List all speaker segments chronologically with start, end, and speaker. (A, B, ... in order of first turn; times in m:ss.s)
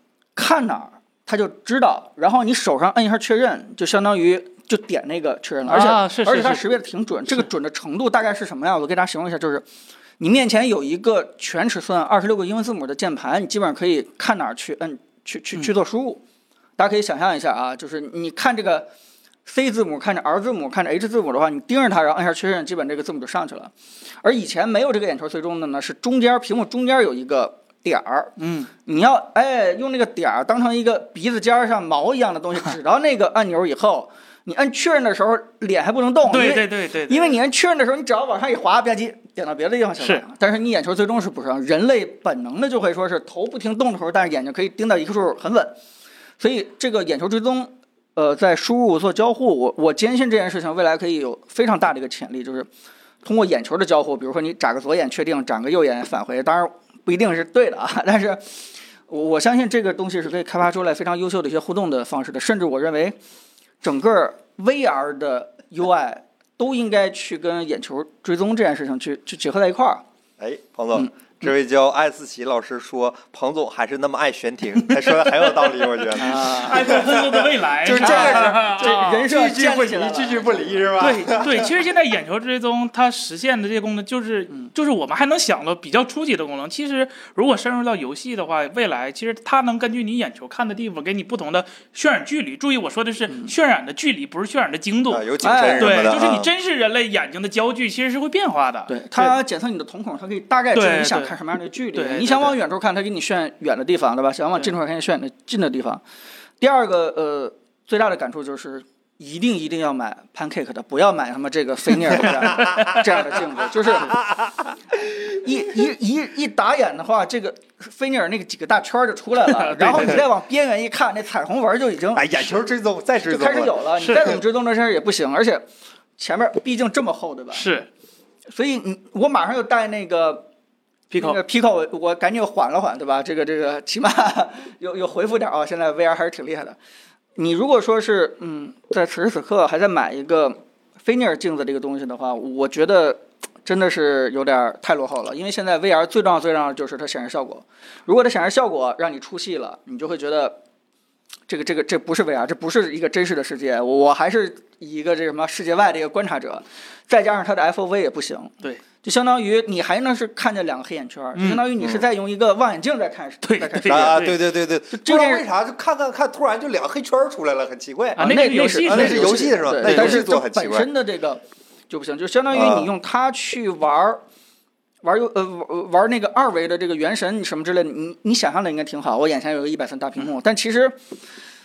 0:00.4-0:09.6 A
0:05.7-0:06.6 B
0:10.2-0:16.2 A
0:16.8-0:18.9 A
0:19.5-0:23.7 A
0:24.2-0:28.4 A
0:28.4-0:28.7 B
0:28.9-0:45.8 A
0:36.3-0:37.4 B
0:46.4-0:52.7 A
0:53.2-0:58.4 A
0:59.1-1:03.2 A
1:03.8-1:10.0 A
1:10.4-1:21.7 C
1:14.9-1:19.3 B
1:16.2-1:16.9 A
1:18.0-1:21.4 A
1:21.0-1:39.4 B
1:35.1-1:36.5 C
1:35.4-1:36.2 A
1:38.9-1:46.0 A
1:40.7-1:41.4 B
1:41.9-1:42.6 B
1:46.6-1:54.2 A
1:52.1-1:53.0 B
1:52.6-1:53.0 C
1:53.9-1:54.7 C
1:55.3-2:02.4 A
1:59.5-2:00.3 B
2:02.1-2:04.2 C
2:03.2-2:05.7 A
2:04.0-2:04.4 B
2:06.2-2:07.7 A
2:07.5-2:07.9 B
2:08.5-2:10.5 A
2:11.1-2:11.4 B
2:11.1-2:16.8 A
2:17.4-2:30.6 A
2:31.5-2:44.3 A
2:41.4-2:41.7 B
2:41.8-2:42.0 C
2:43.4-2:44.4 B
2:43.9-2:50.9 C
2:44.9-2:45.4 A
2:48.2-2:50.2 B
2:48.2-2:54.2 A
2:52.5-2:52.9 C
2:55.0-3:01.0 A